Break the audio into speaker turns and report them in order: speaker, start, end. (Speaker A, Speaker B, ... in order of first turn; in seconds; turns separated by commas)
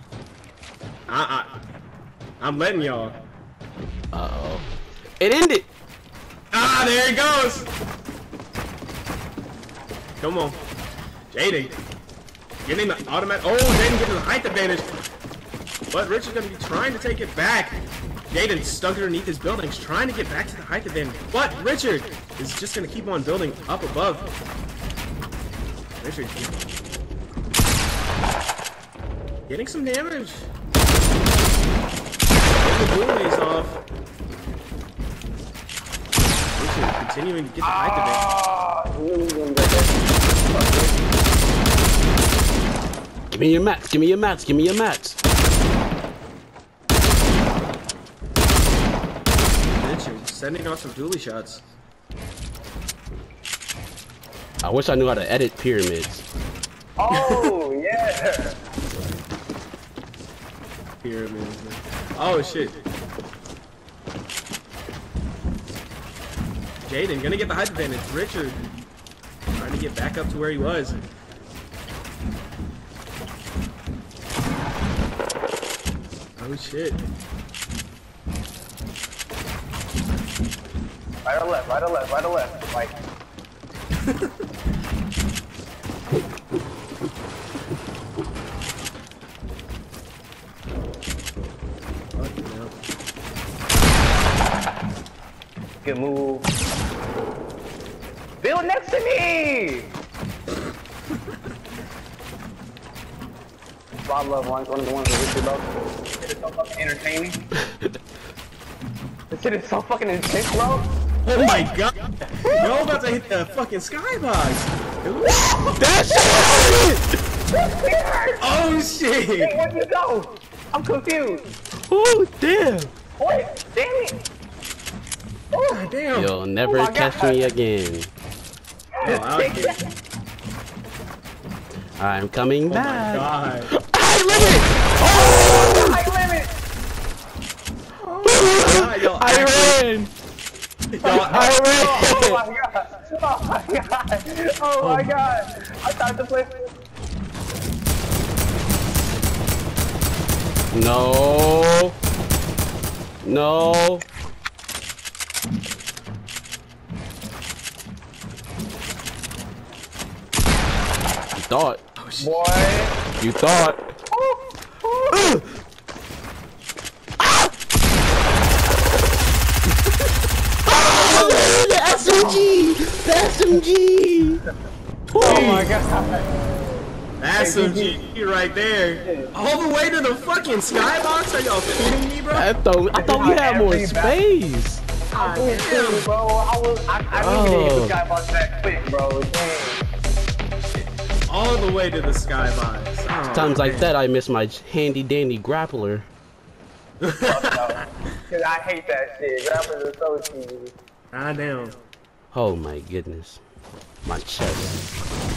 Speaker A: 1.1-1.6, Speaker A: 2.4-3.2, Speaker B: 4.1-4.7, Speaker B: 5.2-5.7, Speaker A: 6.5-7.7, Speaker A: 10.2-10.6, Speaker A: 11.3-11.8, Speaker A: 12.6-14.9, Speaker A: 15.9-24.3, Speaker A: 26.0-26.6, Speaker A: 29.5-30.5, Speaker A: 32.6-33.8, Speaker A: 36.5-38.2, Speaker C: 37.6-41.0, Speaker B: 43.3-45.2, Speaker A: 49.8-51.6, Speaker B: 54.6-56.2, Speaker C: 57.0-58.6, Speaker A: 57.1-57.5, Speaker A: 61.0-62.8, Speaker A: 66.8-68.6, Speaker A: 69.5-71.0, Speaker A: 76.4-77.0, Speaker C: 81.2-82.9, Speaker A: 92.2-92.7, Speaker C: 95.8-96.5, Speaker C: 98.4-99.9, Speaker C: 104.0-107.4, Speaker C: 109.3-110.9, Speaker A: 111.2-115.5, Speaker B: 115.6-117.0, Speaker C: 115.7-116.8, Speaker C: 117.5-118.4, Speaker A: 118.4-119.5, Speaker C: 119.3-121.5, Speaker B: 121.9-122.9, Speaker C: 123.2-124.2, Speaker C: 125.5-125.9, Speaker A: 125.7-126.3, Speaker B: 126.1-128.1, Speaker C: 126.6-127.5, Speaker C: 128.9-129.9, Speaker A: 129.0-129.8, Speaker B: 132.0-136.0, Speaker A: 132.7-133.7, Speaker C: 135.0-136.5, Speaker A: 138.0-139.8, Speaker B: 138.2-140.1, Speaker A: 140.9-142.2, Speaker C: 141.0-146.7, Speaker B: 141.1-142.4, Speaker A: 144.8-145.1, Speaker B: 150.7-151.9, Speaker B: 153.2-154.1, Speaker B: 161.3-161.8, Speaker A: 162.0-162.3, Speaker C: 162.2-162.9, Speaker B: 163.2-163.8, Speaker C: 164.1-165.3, Speaker B: 165.1-165.4, Speaker B: 170.7-174.4, Speaker C: 170.8-172.4, Speaker B: 175.1-175.6, Speaker A: 175.2-175.7, Speaker C: 175.2-176.2, Speaker A: 177.2-182.5, Speaker C: 177.3-178.0, Speaker C: 179.0-179.3, Speaker B: 182.3-184.8, Speaker C: 182.9-184.2, Speaker C: 185.1-189.8, Speaker A: 185.1-186.1, Speaker B: 187.1-188.0, Speaker A: 191.3-193.9, Speaker B: 193.3-196.1, Speaker A: 197.0-197.7, Speaker C: 197.2-200.7, Speaker A: 201.1-201.8, Speaker B: 202.3-203.4, Speaker B: 204.0-204.8